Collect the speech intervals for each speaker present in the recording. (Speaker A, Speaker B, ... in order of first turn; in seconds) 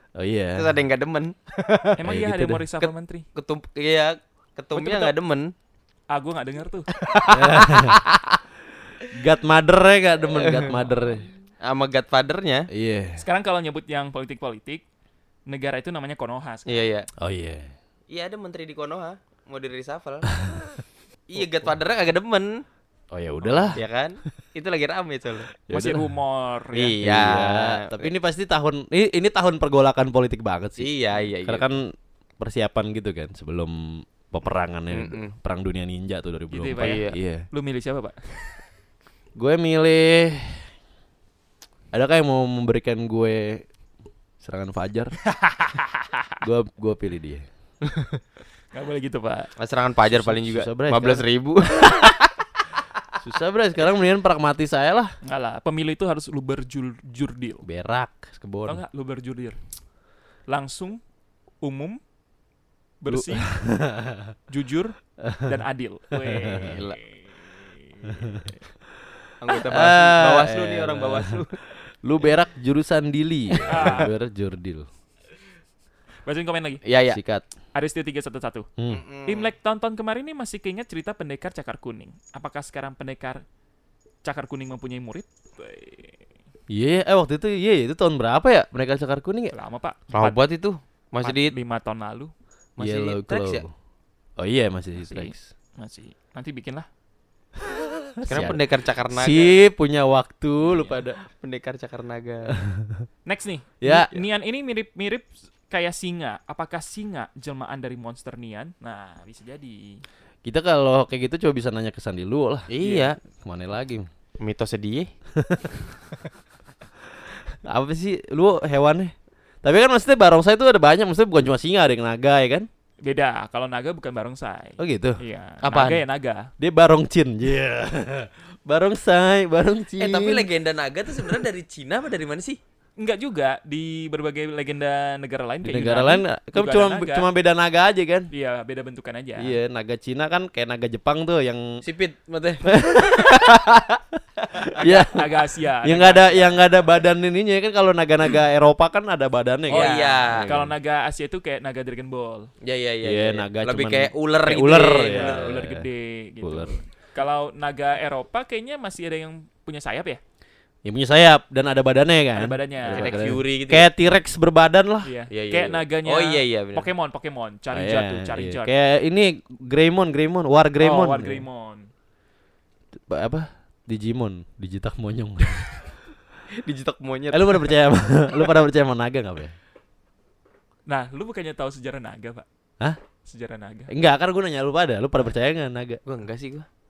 Speaker A: 0.2-0.7, 2.0-2.7, 7.3-8.3, 9.1-11.3, 12.7-13.2, 17.2-17.7, 23.1-23.8, 25.7-26.1, 27.0-30.9, 31.4-37.5, 39.4-40.6, 41.9-43.6, 44.4-45.2, 46.4-47.4, 50.1-51.2, 53.2-55.1, 57.6-58.8, 63.1-64.3, 65.2-65.6, 66.3-66.8, 69.7-74.9, 77.1-77.5, 86.7-89.5, 92.8-93.7, 94.4-95.4, 97.6-101.2, 102.6-103.1, 103.8-104.1, 110.5-112.7, 113.4-114.1, 115.4-115.8, 117.7-122.7, 124.8-125.2, 126.6-130.5, 135.6-138.3, 139.4-141.6, 142.7-144.2, 144.8-145.3, 145.8-150.8, 153.0-155.9, 156.4-156.8, 160.8-165.1, 167.7-171.4, 173.1-175.9, 177.3-179.6, 183.9-186.0
Speaker B: 0.6-2.0, 2.8-5.5, 7.0-8.0, 10.2-10.9, 11.6-12.7, 16.7-17.1, 18.1-20.4, 21.3-22.6, 23.7-25.5, 26.7-28.1, 30.8-31.8, 34.9-35.3, 36.8-37.2, 49.6-52.3, 66.7-67.0, 69.4-71.6, 73.5-74.0, 76.8-77.2, 78.9-79.5, 90.1-91.5, 92.8-93.7, 98.3-99.6, 100.7-102.6, 112.7-113.2, 114.4-115.1, 125.6-126.0, 130.0-132.6, 141.8-143.4, 144.8-145.1, 149.7-150.5, 152.6-155.6, 162.9-163.9, 165.3-166.9, 176.6-177.8, 186.1-186.7
Speaker C: 2.0-3.3, 4.7-5.1, 6.1-6.9, 13.2-14.8, 15.5-16.9, 23.4-23.8, 25.7-26.9, 36.5-38.6, 45.4-46.3, 48.7-49.5, 55.2-57.6, 58.7-59.6, 60.5-61.0, 61.6-62.0, 63.0-63.6, 64.5-68.6, 73.7-74.1, 76.2-76.8, 77.7-78.7, 79.3-83.4, 84.2-86.2, 89.5-90.4, 91.2-92.3, 95.0-96.9, 103.2-110.0, 123.0-126.5, 133.0-137.3, 138.3-139.6, 144.9-146.6, 149.7-152.5, 154.5-160.2, 162.3-163.3, 165.0-168.7, 170.8-171.9, 180.9-182.5, 183.2-183.9